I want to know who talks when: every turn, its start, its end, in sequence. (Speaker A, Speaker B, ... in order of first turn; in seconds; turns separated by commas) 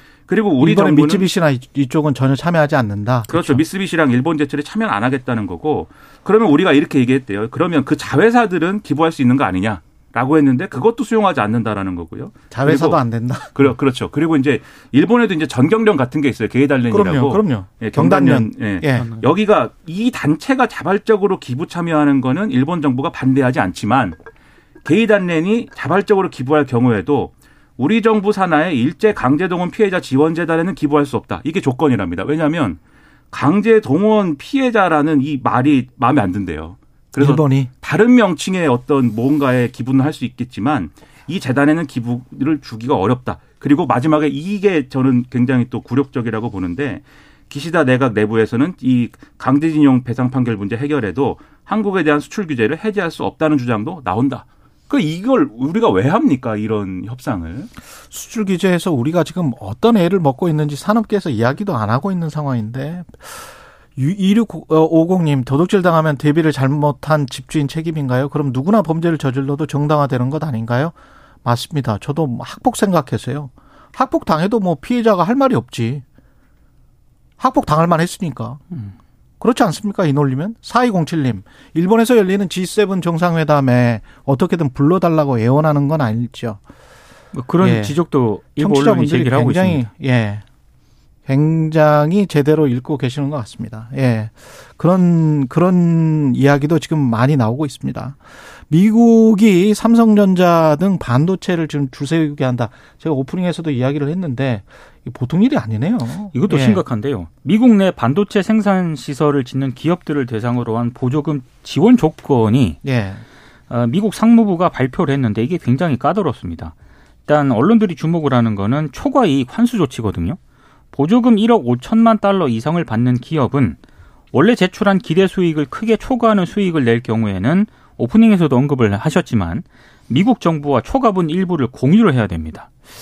Speaker A: 0.3-1.3, Speaker B: 0.6-3.6, Speaker A: 3.3-13.0, Speaker B: 12.5-13.6, Speaker A: 13.5-24.2, Speaker B: 16.9-19.1, Speaker C: 18.9-19.3, Speaker A: 24.8-32.8, Speaker A: 33.3-57.7, Speaker B: 37.2-37.7, Speaker B: 58.1-76.0, Speaker B: 77.4-78.6, Speaker B: 79.4-86.6, Speaker C: 87.3-89.8, Speaker B: 87.6-88.0, Speaker B: 88.5-90.4, Speaker B: 91.2-98.2, Speaker B: 98.7-106.8, Speaker C: 106.3-112.8, Speaker B: 112.8-113.2, Speaker C: 113.7-116.7, Speaker C: 117.2-120.4, Speaker C: 120.9-123.8, Speaker C: 124.3-132.7